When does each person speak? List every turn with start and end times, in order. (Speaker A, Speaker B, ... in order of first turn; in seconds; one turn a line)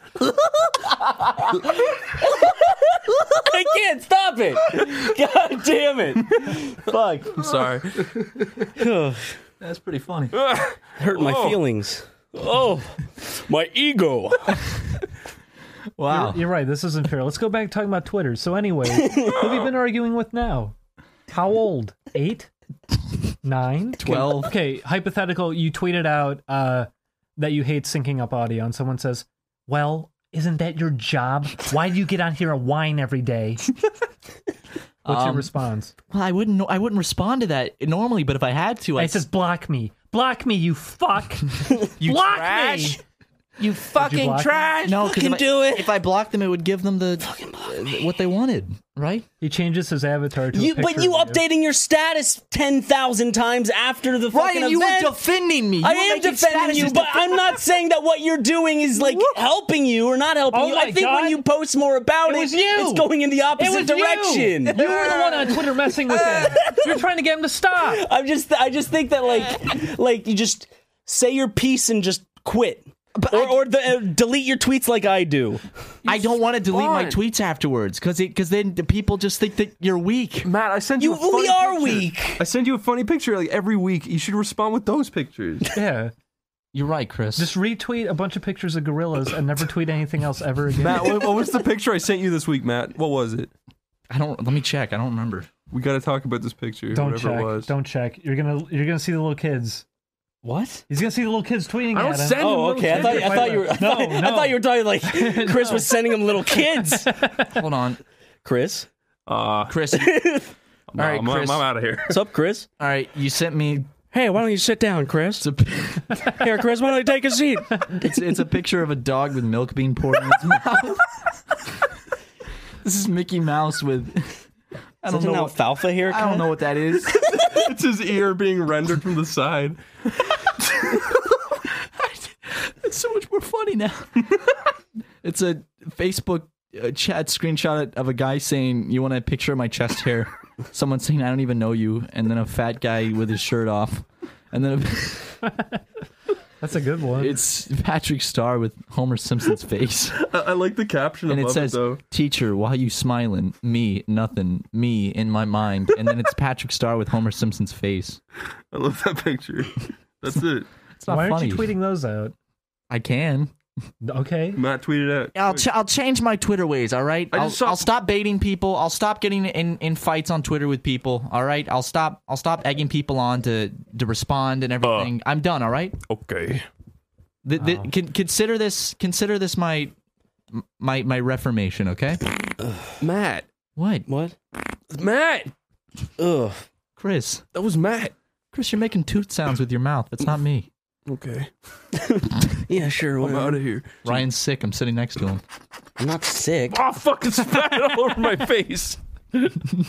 Speaker A: 1.0-7.5
Speaker B: 7.3-8.2
Speaker A: 8.8-9.3
Speaker C: 9.6-10.4
Speaker B: 10.3-11.6
Speaker A: 11.0-14.6
Speaker C: 16.0-16.4
Speaker D: 16.1-20.8
Speaker A: 18.9-19.5
Speaker D: 21.3-22.5
Speaker D: 23.4-33.6
Speaker C: 24.0-24.5
Speaker C: 35.0-35.5
Speaker D: 35.0-35.9
Speaker C: 36.1-39.2
Speaker D: 39.0-43.0
Speaker C: 42.0-42.3
Speaker B: 42.0-43.0
Speaker B: 43.6-45.0
Speaker D: 43.9-44.7
Speaker C: 44.8-49.3
Speaker A: 45.0-45.9
Speaker A: 47.2-47.9
Speaker D: 49.4-51.4
Speaker A: 50.5-55.2
Speaker C: 54.3-57.6
Speaker A: 55.8-66.9
Speaker D: 60.5-61.4
Speaker D: 62.2-68.0
Speaker B: 64.8-65.1
Speaker A: 67.8-75.6
Speaker C: 73.2-73.6
Speaker C: 76.0-80.5
Speaker B: 76.1-77.2
Speaker B: 80.4-85.7
Speaker A: 81.0-82.4
Speaker D: 85.7-86.1
Speaker C: 86.7-87.5
Speaker D: 87.3-91.3
Speaker B: 90.8-93.5
Speaker C: 94.1-95.5
Speaker B: 95.7-97.7
Speaker D: 96.9-99.8
Speaker A: 100.4-100.8
Speaker D: 100.9-107.6
Speaker B: 101.9-103.7
Speaker A: 102.3-107.1
Speaker C: 107.3-108.0
Speaker A: 108.4-108.9
Speaker B: 109.3-109.8
Speaker C: 109.7-110.1
Speaker A: 109.9-110.5
Speaker B: 110.9-112.2
Speaker C: 111.0-111.7
Speaker A: 112.1-112.7
Speaker C: 112.8-113.9
Speaker A: 114.1-115.5
Speaker C: 115.4-116.3
Speaker A: 116.2-118.2
Speaker C: 117.9-121.0
Speaker C: 122.8-124.4
Speaker C: 125.0-127.3
Speaker A: 125.1-126.5
Speaker B: 127.3-129.8
Speaker C: 131.7-134.7
Speaker C: 135.2-145.4
Speaker D: 146.6-147.4
Speaker C: 147.2-150.2
Speaker B: 150.2-152.0
Speaker C: 151.3-158.2
Speaker B: 158.7-160.7
Speaker C: 161.0-161.7
Speaker D: 161.1-162.3
Speaker C: 162.9-163.5
Speaker D: 164.0-164.6
Speaker B: 164.5-165.7
Speaker C: 165.3-175.9
Speaker B: 167.3-167.9
Speaker B: 174.8-175.1
Speaker B: 176.1-176.6
Speaker C: 177.4-179.9
Speaker D: 177.6-177.9
Speaker C: 180.5-182.2
Speaker A: 182.6-182.9
Speaker B: 183.0-183.4
Speaker C: 183.8-184.1
Speaker A: 184.1-184.3
Speaker B: 184.9-185.5
Speaker A: 186.2-186.6
Speaker C: 187.0-187.4
Speaker B: 187.5-188.1
Speaker C: 188.5-190.7
Speaker B: 191.1-191.5
Speaker A: 191.9-193.6
Speaker B: 193.2-194.2
Speaker C: 194.0-195.4
Speaker A: 196.0-196.8
Speaker B: 196.7-199.0